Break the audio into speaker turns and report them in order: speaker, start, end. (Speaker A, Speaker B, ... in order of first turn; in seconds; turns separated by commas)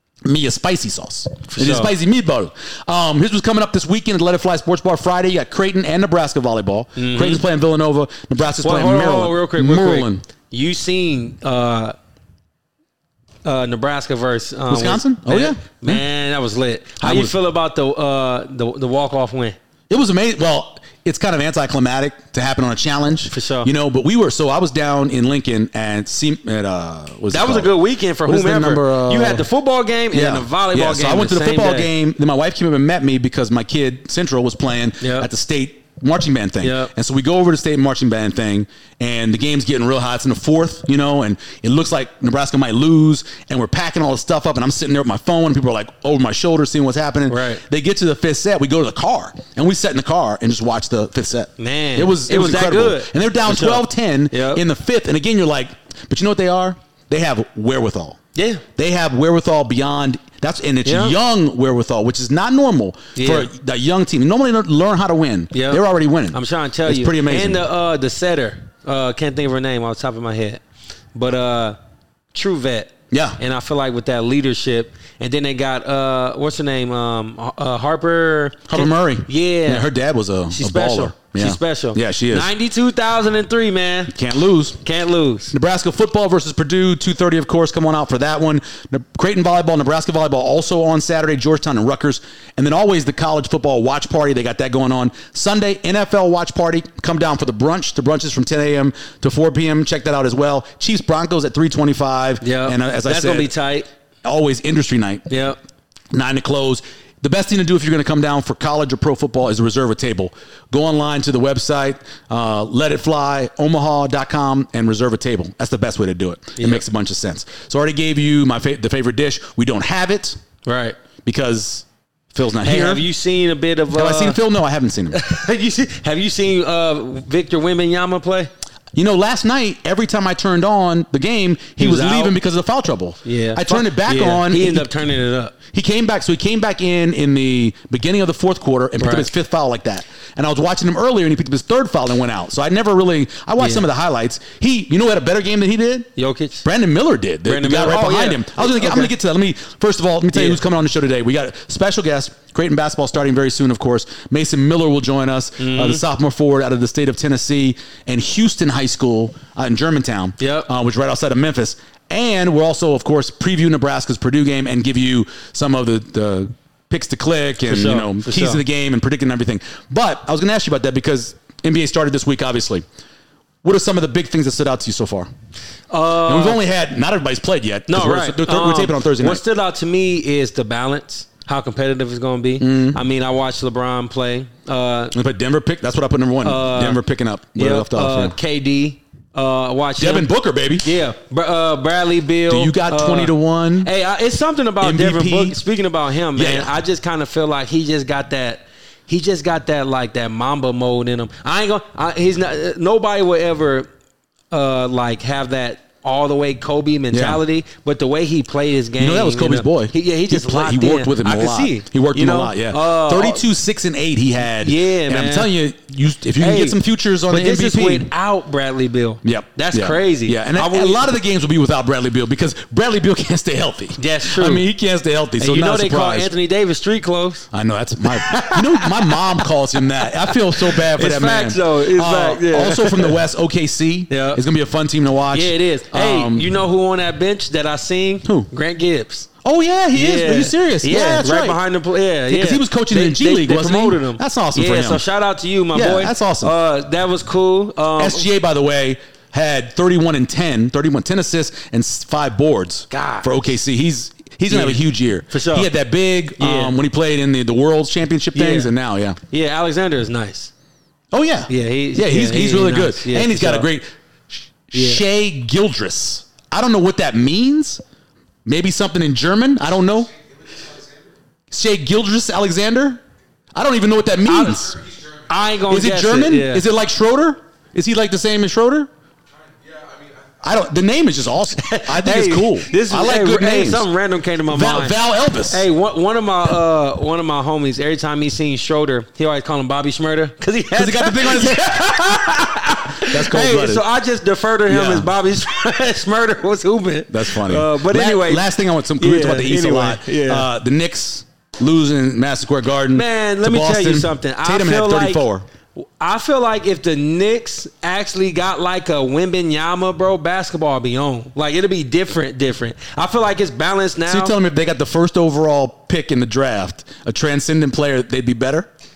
Speaker A: 0.2-10.2, Speaker B: 1.5-1.9, Speaker B: 7.0-7.4, Speaker B: 8.6-11.9, Speaker B: 13.4-19.6, Speaker A: 14.7-16.0, Speaker A: 17.0-17.3, Speaker A: 19.9-29.5, Speaker B: 23.3-23.7, Speaker B: 27.3-31.9, Speaker A: 30.1-58.2, Speaker B: 35.0-35.3, Speaker B: 36.6-36.9, Speaker B: 47.3-47.6, Speaker B: 51.6-54.6, Speaker B: 58.3-58.6, Speaker A: 58.8-67.7, Speaker B: 60.8-61.2, Speaker B: 63.1-63.5, Speaker B: 65.5-70.6, Speaker B: 71.1-71.8, Speaker B: 72.3-79.9, Speaker A: 73.1-73.4, Speaker A: 78.7-82.5, Speaker B: 80.5-84.1, Speaker A: 84.1-84.8, Speaker B: 84.8-85.5, Speaker A: 85.5-103.5, Speaker B: 102.4-103.9, Speaker A: 104.2-105.3, Speaker B: 105.3-105.6, Speaker A: 106.1-120.4, Speaker B: 116.6-116.8, Speaker B: 120.6-121.0, Speaker A: 121.2-123.0, Speaker B: 122.6-124.4, Speaker A: 123.9-125.2, Speaker B: 125.1-128.5, Speaker A: 128.9-134.9, Speaker B: 131.8-132.3, Speaker B: 133.2-135.5, Speaker A: 135.7-146.1, Speaker B: 139.0-139.3, Speaker B: 143.6-143.9, Speaker B: 146.2-146.6, Speaker A: 146.6-172.8, Speaker B: 147.4-149.1, Speaker B: 150.3-150.6, Speaker B: 155.6-156.0, Speaker B: 160.4-160.7, Speaker B: 167.7-168.6, Speaker A: 173.6-175.3, Speaker B: 175.9-176.6, Speaker A: 176.2-179.4, Speaker B: 177.9-185.1, Speaker A: 182.6-183.0, Speaker A: 185.1-188.3, Speaker B: 186.4-187.0, Speaker B: 187.5-190.3, Speaker A: 190.0-190.9, Speaker B: 190.8-203.9, Speaker A: 192.5-193.9, Speaker A: 194.8-195.6, Speaker A: 196.3-196.7, Speaker B: 204.5-213.4, Speaker A: 207.1-207.4, Speaker A: 209.0-218.1, Speaker B: 214.6-215.5, Speaker B: 216.4-216.8, Speaker B: 217.3-221.0, Speaker A: 219.2-226.3, Speaker B: 224.0-224.6, Speaker B: 225.4-227.5, Speaker A: 227.5-236.5, Speaker B: 228.0-233.2, Speaker B: 234.1-234.4, Speaker B: 235.3-239.3, Speaker A: 238.2-238.5, Speaker A: 239.4-241.6, Speaker B: 239.9-248.3, Speaker A: 242.3-245.0, Speaker A: 245.7-246.5, Speaker A: 248.0-259.2, Speaker B: 252.9-253.4, Speaker B: 254.5-255.7, Speaker B: 256.4-256.7, Speaker B: 258.3-258.7, Speaker B: 259.3-260.5, Speaker A: 261.1-267.8, Speaker B: 261.5-263.7, Speaker B: 264.7-265.0, Speaker A: 268.4-270.9, Speaker A: 271.5-273.0, Speaker A: 273.5-274.8, Speaker B: 274.2-276.6, Speaker A: 275.7-278.9, Speaker A: 279.7-283.9, Speaker B: 281.6-284.9, Speaker A: 284.5-285.6, Speaker B: 285.5-300.5, Speaker A: 290.7-293.8, Speaker A: 294.7-295.1, Speaker A: 297.1-305.4, Speaker B: 302.9-305.2, Speaker B: 305.8-314.3, Speaker A: 314.1-318.7